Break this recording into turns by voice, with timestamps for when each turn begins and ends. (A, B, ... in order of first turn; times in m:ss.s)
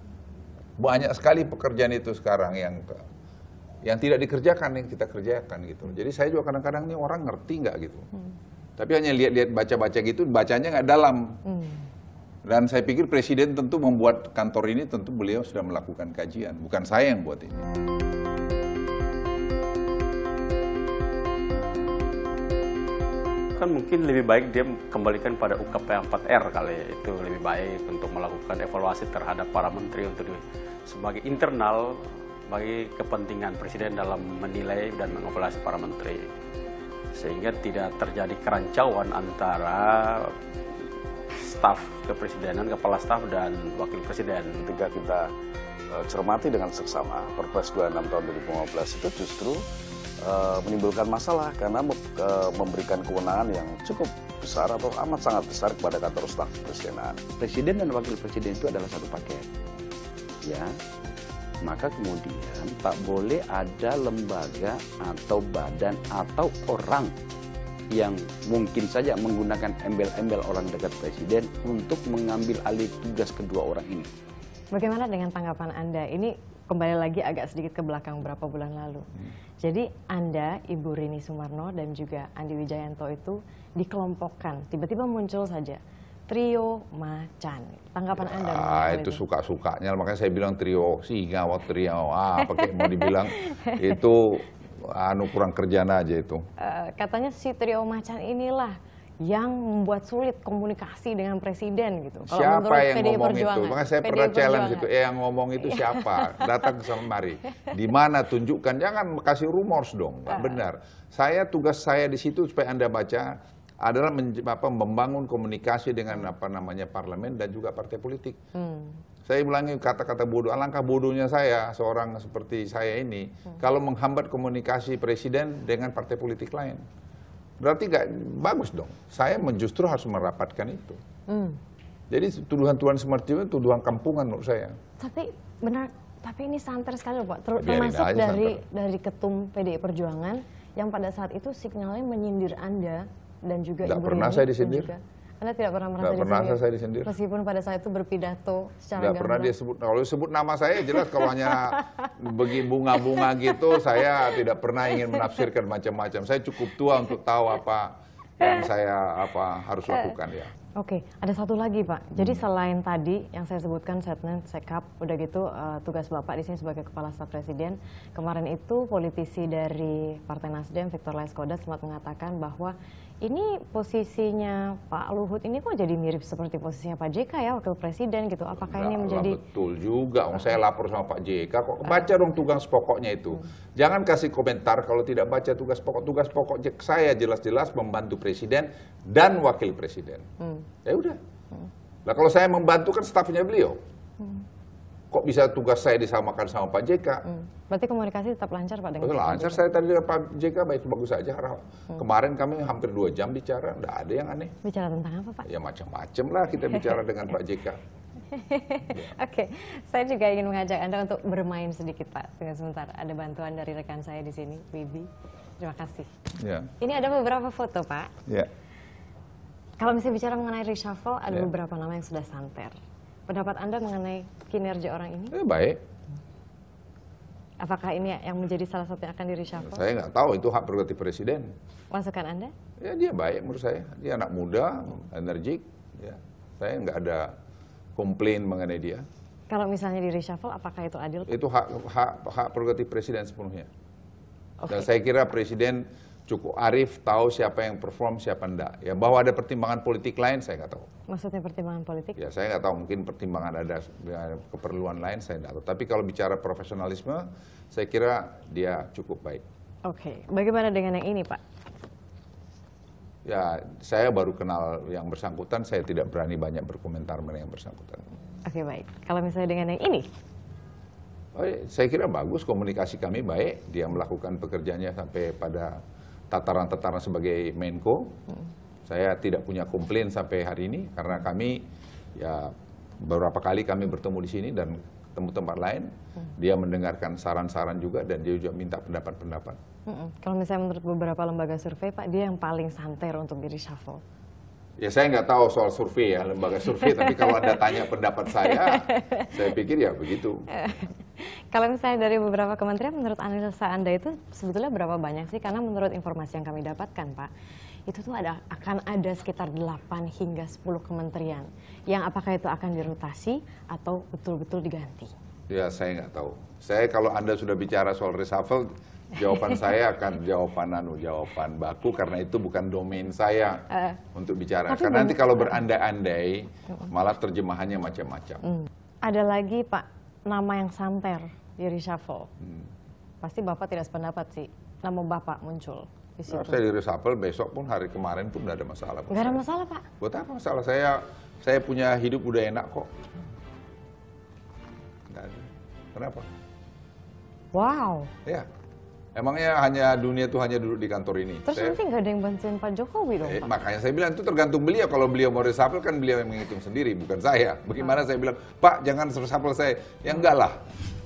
0:00.8-0:03.0 A
0:03.8-0:08.1 A
0:08.8-0:11.4 A
0:11.4-0:11.8 B
0:12.4-0:17.7 A
0:23.6-0:36.3 C
0:37.1-0:40.4 C
0:41.3-0:44.6 C
0:44.6-0:45.2 D
0:45.9-0:49.6 D
0:50.2-0:57.3 D
0:57.4-0:59.4 E
1:01.6-1:07.1 E
1:07.9-1:14.1 E
1:14.7-1:19.1 B
1:19.6-1:29.2 B
1:28.2-1:36.4 A
1:32.5-1:33.9 B
1:36.6-1:44.8 B
1:42.3-1:58.4 A
1:45.6-1:46.9 B
1:50.3-1:50.6 B
1:58.5-1:59.0 B
1:59.2-2:06.8 A
2:07.6-2:11.0 A
2:11.3-2:11.6 B
2:12.1-2:14.8 A
2:15.0-2:29.5 B
2:17.6-2:18.6 A
2:23.8-2:24.9 A
2:26.0-2:27.1 A
2:29.0-2:40.5 A
2:31.0-2:31.8 B
2:40.7-2:59.4 B
2:42.1-2:42.4 A
2:58.6-3:10.2 A
3:10.4-3:10.6 B
3:10.8-3:11.2 A
3:12.0-3:13.8 A
3:15.1-3:17.2 A
3:17.3-3:19.6 B
3:19.0-3:24.5 A
3:24.6-3:25.5 B
3:25.4-3:27.8 A
3:28.3-3:35.1 B
3:35.6-3:36.1 B
3:36.4-3:36.7 A
3:36.8-3:38.1 B
3:39.8-3:42.7 B
3:43.3-3:45.3 B
3:45.3-3:45.8 A
3:47.6-3:49.8 B
3:49.6-3:51.5 A
3:51.9-3:52.5 B
3:52.8-3:57.4 A
3:58.0-3:59.0 A
3:59.5-4:01.3 B
4:01.3-4:03.7 A
4:04.6-4:04.8 B
4:04.7-4:10.9 A
4:11.1-4:12.2 B
4:12.2-4:19.4 A
4:19.8-4:21.4 B
4:23.2-4:28.0 A
4:28.4-4:30.0 B
4:31.3-4:35.8 A
4:36.3-4:38.1 A
4:38.9-4:41.6 A
4:42.2-4:49.6 A
4:49.9-4:54.0 B
4:54.8-5:00.4 A
4:57.0-4:57.5 B
4:58.4-4:59.3 B
5:00.5-5:07.3 B
5:07.9-5:15.1 B
5:15.5-5:28.4 A
5:24.7-5:25.6 B
5:28.4-5:32.3 B
5:32.4-5:32.7 A
5:33.2-5:36.6 B
5:36.3-5:39.4 A
5:39.1-5:39.8 B
5:40.0-5:42.9 A
5:45.1-5:46.3 A
5:47.5-5:48.1 B
5:49.2-5:51.8 A
5:51.4-5:53.5 B
5:53.2-6:00.6 A